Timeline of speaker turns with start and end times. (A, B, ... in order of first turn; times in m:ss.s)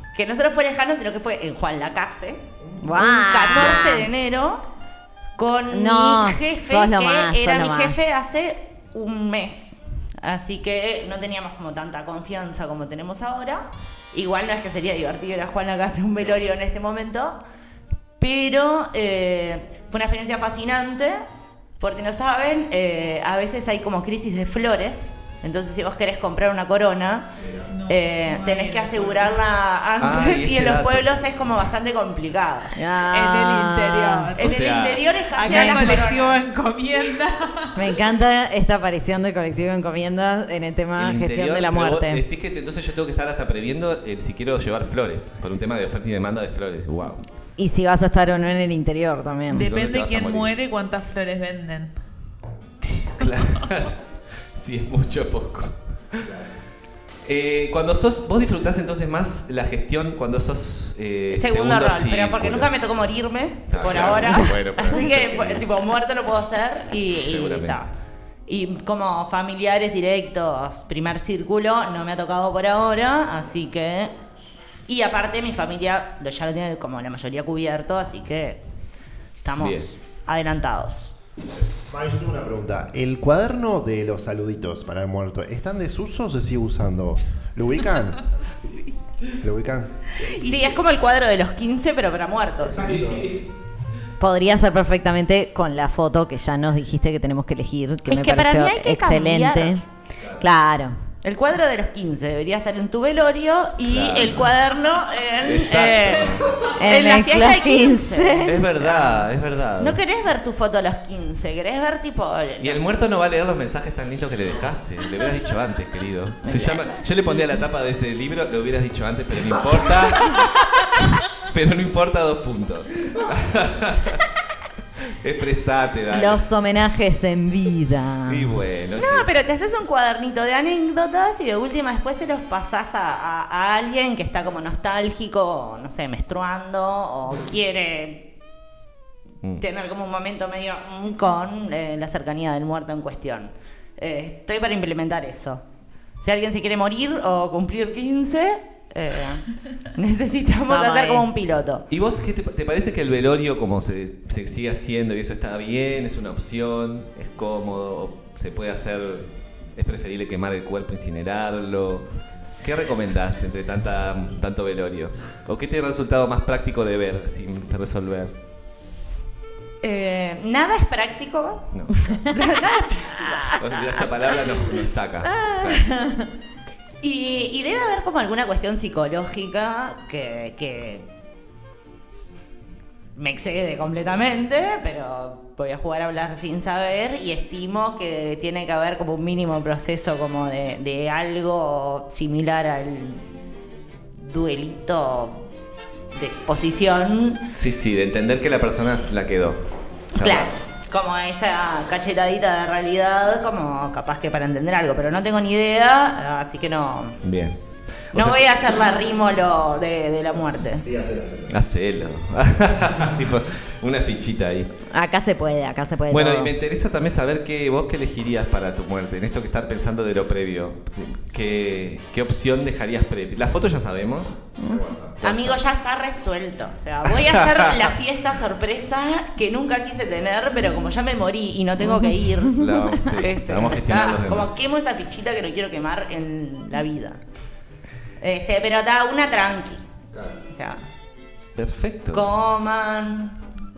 0:00.1-0:04.6 A
0:02.8-0:04.1 B
0:05.4-0:17.4 A
0:05.7-0:08.0 B
0:18.2-0:21.2 A
0:21.8-0:27.3 A
0:27.7-0:29.3 C
0:27.9-0:36.5 A
0:30.0-0:31.1 D
0:32.7-0:34.3 B
0:33.1-0:34.6 C
0:34.4-0:35.1 D
0:35.3-0:37.9 C
0:35.4-0:36.0 B
0:37.7-0:42.2 B
0:41.0-0:47.2 D
0:47.6-0:49.7 B
0:49.5-0:50.5 D
0:49.5-0:51.9 C
0:52.9-0:54.0 D
0:54.5-0:56.3 D
0:57.2-1:02.7 D
1:01.3-1:07.9 A
1:03.7-1:05.7 D
1:07.2-1:07.9 D
1:08.5-1:14.1 A
1:14.9-1:18.6 A
1:19.4-1:21.1 A
1:19.6-1:19.9 D
1:21.9-1:28.3 E
1:29.4-1:30.1 E
1:30.2-1:30.8 C
1:30.2-1:32.9 A
1:32.8-1:33.3 D
1:32.8-1:33.3 E
1:34.2-1:39.8 B
1:38.1-1:39.8 A
1:40.4-1:41.0 B
1:41.2-1:52.8 A
1:43.8-1:44.5 D
1:45.4-1:46.6 D
1:46.7-1:48.8 B
1:48.4-1:50.0 D
1:52.6-2:04.3 D
1:56.4-1:56.9 B
2:05.1-2:06.4 D
2:06.1-2:08.6 B
2:08.3-2:09.3 D
2:09.0-2:18.3 A
2:19.6-2:25.6 A
2:26.2-2:31.8 A
2:30.7-2:31.3 B
2:31.9-2:42.1 D
2:42.6-2:48.3 D
2:49.8-2:53.6 A
2:51.7-2:52.1 D
2:53.5-2:55.9 D
2:55.2-2:56.3 B
2:57.0-3:01.1 A
3:03.2-3:13.3 A
3:14.2-3:15.5 A
3:16.1-3:17.4 A
3:17.5-3:20.5 D
3:20.2-3:27.2 A
3:27.2-3:27.6 D
3:28.1-3:28.4 D
3:28.1-3:30.9 A
3:30.8-3:31.5 E
3:31.5-3:34.7 D
3:34.9-3:36.5 B
3:36.1-3:44.4 D
3:44.6-3:45.2 E
3:45.2-3:45.6 D
3:45.2-3:57.2 A
3:47.0-3:47.9 D
3:51.8-3:52.8 B
3:52.5-3:54.5 D
3:58.2-3:59.8 A
4:00.5-4:00.9 A
4:01.6-4:02.3 D
4:02.1-4:03.4 A